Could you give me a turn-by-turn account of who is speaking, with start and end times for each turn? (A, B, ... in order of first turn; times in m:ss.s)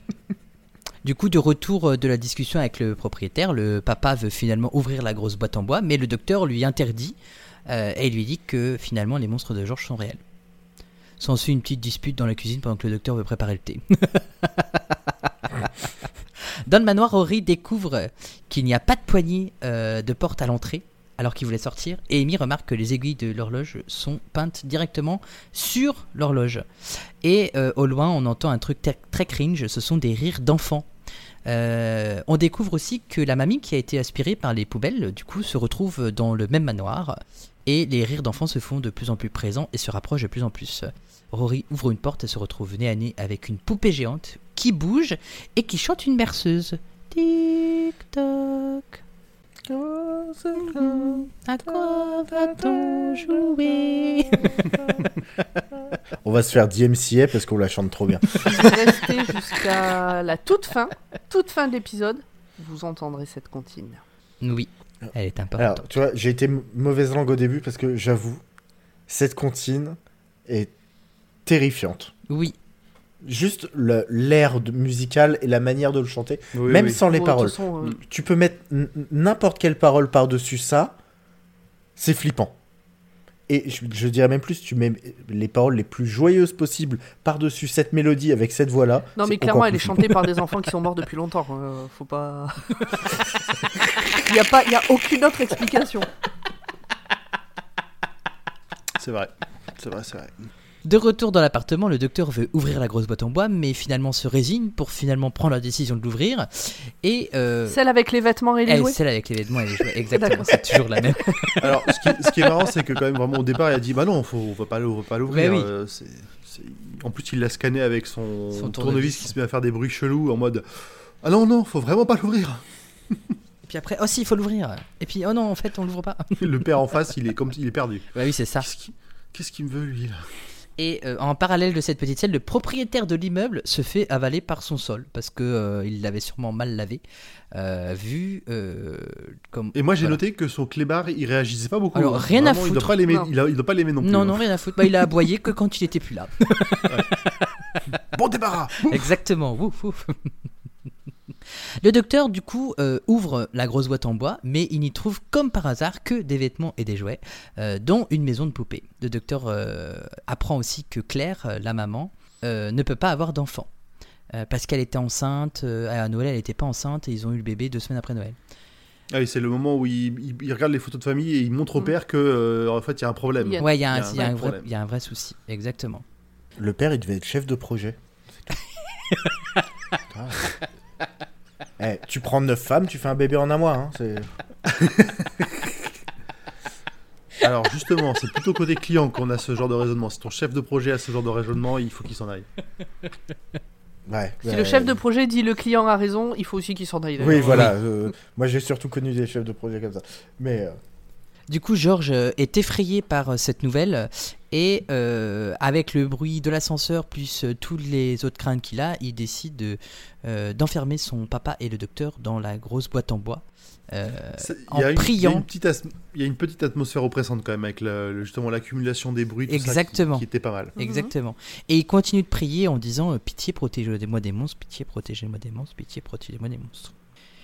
0:01.0-0:07.2 A
0:07.7-0:10.2 A
0:11.2-0:14.8 A
0:15.5-0:15.9 A
0:16.7-0:30.9 A
0:31.5-0:49.0 A
0:49.7-0:53.4 B
0:50.6-0:54.8 A
0:54.4-0:54.8 B
0:56.2-0:58.6 B
0:58.4-1:04.0 C
1:04.4-1:05.8 A
1:05.0-1:08.4 B
1:09.1-1:10.7 B
1:11.5-1:12.1 B
1:12.3-1:12.6 A
1:13.2-1:21.0 B
1:16.6-1:17.0 D
1:17.0-1:18.0 C
1:22.0-1:22.6 B
1:23.5-1:30.4 B
1:29.2-1:33.2 C
1:34.2-1:36.1 C
1:39.0-1:40.5 D
1:40.8-1:47.8 A
1:47.7-1:49.0 C
1:48.7-1:52.7 A
1:50.1-1:50.6 C
1:51.6-2:03.4 D
1:55.3-1:55.7 A
1:58.5-1:59.3 A
2:03.7-2:06.5 A
2:06.4-2:08.1 D
2:08.2-2:08.7 A
2:08.6-2:10.3 D
2:10.8-2:17.0 A
2:17.5-2:20.2 A
2:19.8-2:24.9 D
2:21.9-2:23.0 A
2:24.0-2:27.5 A
2:27.9-2:29.1 D
2:28.8-2:30.3 A
2:31.8-2:43.7 A
2:44.3-2:48.4 A
2:49.1-2:54.7 D
2:53.4-2:54.2 C
2:53.6-2:56.0 A
2:56.6-2:58.6 B
3:00.2-3:00.5 D
3:01.8-3:04.3 B
3:04.7-3:05.5 D
3:07.4-3:12.5 D
3:14.1-3:15.0 B
3:14.5-3:17.4 C
3:17.2-3:20.8 B
3:17.3-3:17.8 A
3:21.5-3:35.5 A
3:34.4-3:40.7 D
3:39.5-3:46.9 A
3:40.8-3:41.1 C